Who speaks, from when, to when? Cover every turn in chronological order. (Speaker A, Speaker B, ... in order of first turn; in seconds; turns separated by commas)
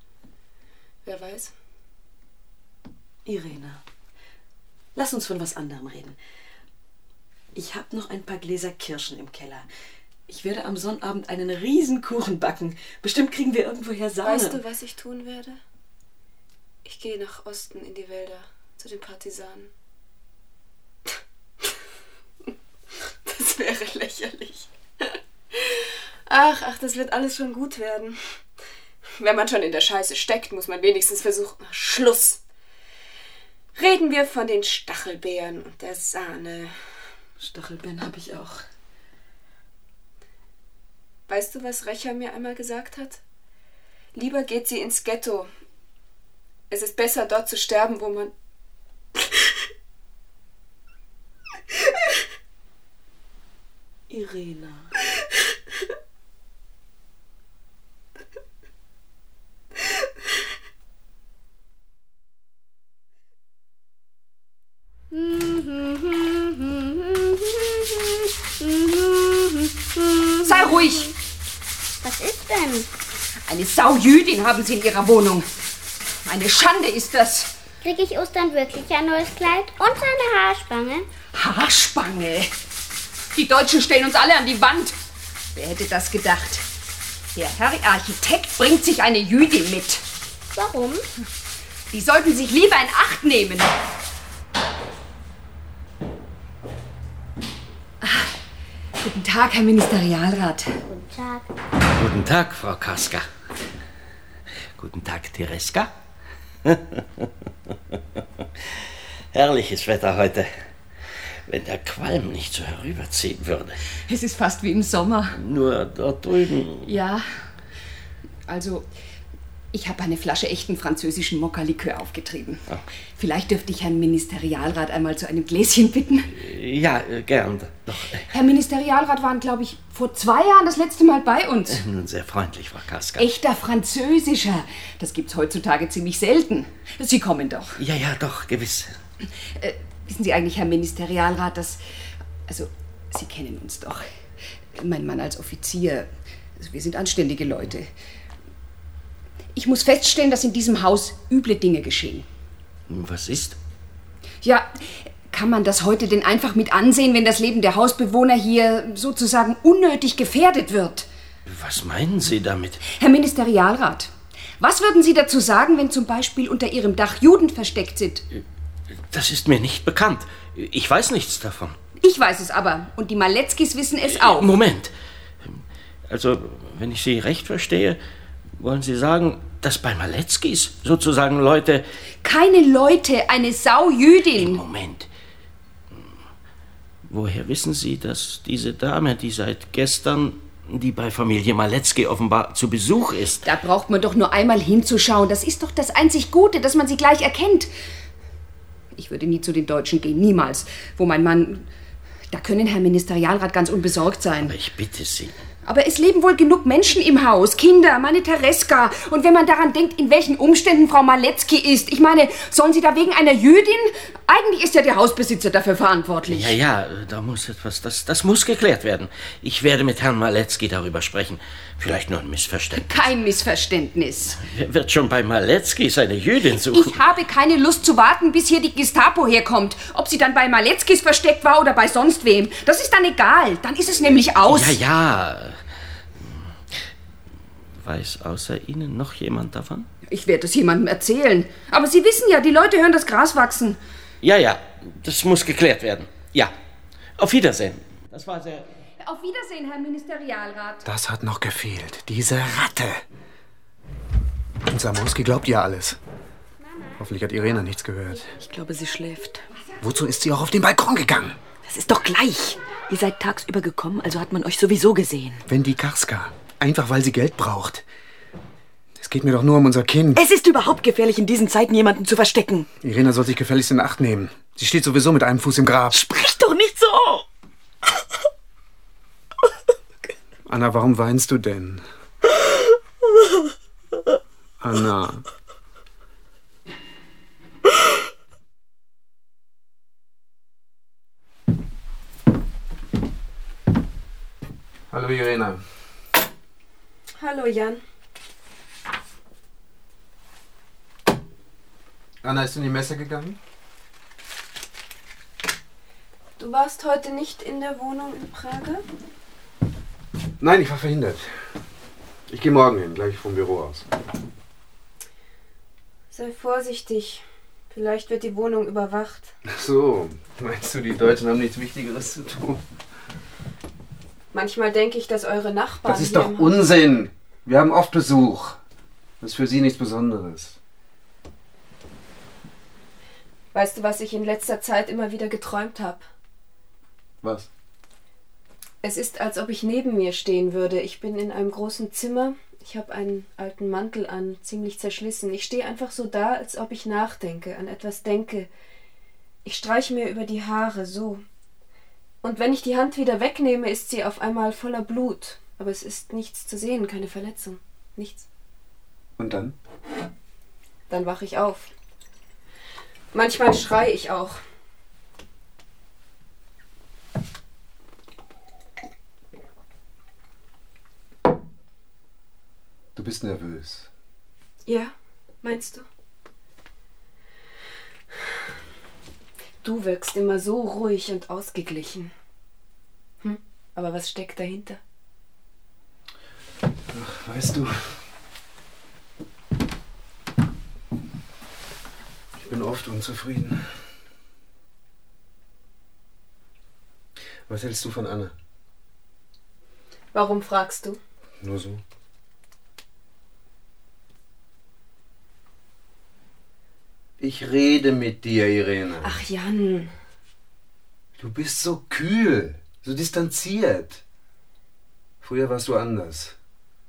Speaker A: 1.1-1.5, Speaker B: 3.2-3.8, Speaker B: 5.0-6.2, Speaker B: 7.5-9.7, Speaker B: 10.3-14.6, Speaker A: 14.2-15.6, Speaker A: 16.9-19.7, Speaker A: 23.3-28.2, Speaker A: 29.2-32.4, Speaker A: 33.8-36.7, Speaker B: 37.4-38.6, Speaker A: 41.3-43.2, Speaker A: 44.1-45.5, Speaker A: 46.7-48.3, Speaker B: 54.1-54.9, Speaker C: 65.1-71.2, Speaker D: 70.5-71.1, Speaker C: 72.0-72.9, Speaker D: 73.5-75.5, Speaker D: 76.2-77.5, Speaker C: 77.8-81.1, Speaker D: 81.3-82.5, Speaker D: 83.3-85.0, Speaker D: 85.5-86.7, Speaker D: 87.3-90.0, Speaker C: 90.5-91.1, Speaker D: 91.9-93.7, Speaker D: 98.0-98.3, Speaker D: 99.0-100.7, Speaker C: 100.9-101.5, Speaker E: 101.9-103.3, Speaker E: 104.8-105.9, Speaker E: 106.7-107.3, Speaker E: 109.3-110.5, Speaker E: 111.5-113.8, Speaker D: 114.1-115.4, Speaker E: 115.3-116.9, Speaker D: 116.8-117.3, Speaker D: 118.5-118.8, Speaker D: 119.7-122.6, Speaker D: 123.2-126.3, Speaker E: 126.3-128.3, Speaker D: 128.3-131.8, Speaker E: 131.7-133.3, Speaker D: 133.2-137.8, Speaker E: 137.8-138.9, Speaker D: 139.6-141.8, Speaker D: 142.5-144.1, Speaker D: 144.8-147.9, Speaker D: 149.6-152.3, Speaker E: 152.9-153.6, Speaker D: 154.4-161.1, Speaker E: 161.5-162.8, Speaker D: 162.9-168.2, Speaker E: 169.1-171.8, Speaker D: 172.0-174.5, Speaker E: 174.1-174.9, Speaker E: 175.4-178.0, Speaker E: 178.6-181.8, Speaker D: 182.2-184.6, Speaker E: 184.4-185.1, Speaker E: 187.1-193.5, Speaker D: 193.4-197.7, Speaker D: 198.9-201.7, Speaker D: 202.3-204.6, Speaker E: 204.4-205.4, Speaker D: 205.7-216.6, Speaker E: 216.3-223.1, Speaker D: 222.7-224.4, Speaker E: 224.3-227.0, Speaker D: 226.7-234.8, Speaker E: 234.4-235.6, Speaker E: 237.8-239.9, Speaker D: 240.1-243.8, Speaker E: 244.2-246.5, Speaker E: 247.2-248.7, Speaker D: 249.0-250.8, Speaker F: 250.8-253.0, Speaker F: 254.6-256.0, Speaker F: 257.0-258.3, Speaker B: 258.4-259.4, Speaker F: 259.8-261.4, Speaker B: 261.6-265.4, Speaker F: 265.5-267.9, Speaker F: 269.0-270.2, Speaker B: 270.2-272.7, Speaker F: 272.8-276.0, Speaker B: 275.9-277.2, Speaker F: 280.5-281.8, Speaker F: 284.6-285.2, Speaker F: 294.9-295.6, Speaker A: 297.2-297.8, Speaker F: 302.2-303.4, Speaker A: 306.4-308.8, Speaker F: 310.4-311.3, Speaker F: 312.3-313.9, Speaker A: 316.1-319.3, Speaker F: 319.4-322.6, Speaker A: 324.3-326.6, Speaker F: 325.9-328.6, Speaker F: 329.2-330.6, Speaker A: 333.5-336.1, Speaker F: 337.2-337.5, Speaker A: 338.8-348.5, Speaker A: 349.4-351.2, Speaker A: 352.2-358.3, Speaker F: 359.2-359.6, Speaker A: 360.9-361.7, Speaker A: 363.1-364.4, Speaker F: 372.9-373.9, Speaker A: 374.7-375.9, Speaker A: 379.6-382.1, Speaker A: 383.2-384.8, Speaker F: 386.9-387.9, Speaker F: 392.4-393.7, Speaker F: 397.5-398.3, Speaker A: 400.1-401.0, Speaker F: 401.4-401.8, Speaker F: 407.2-409.2, Speaker A: 409.0-409.9, Speaker F: 411.2-414.0, Speaker F: 415.2-416.4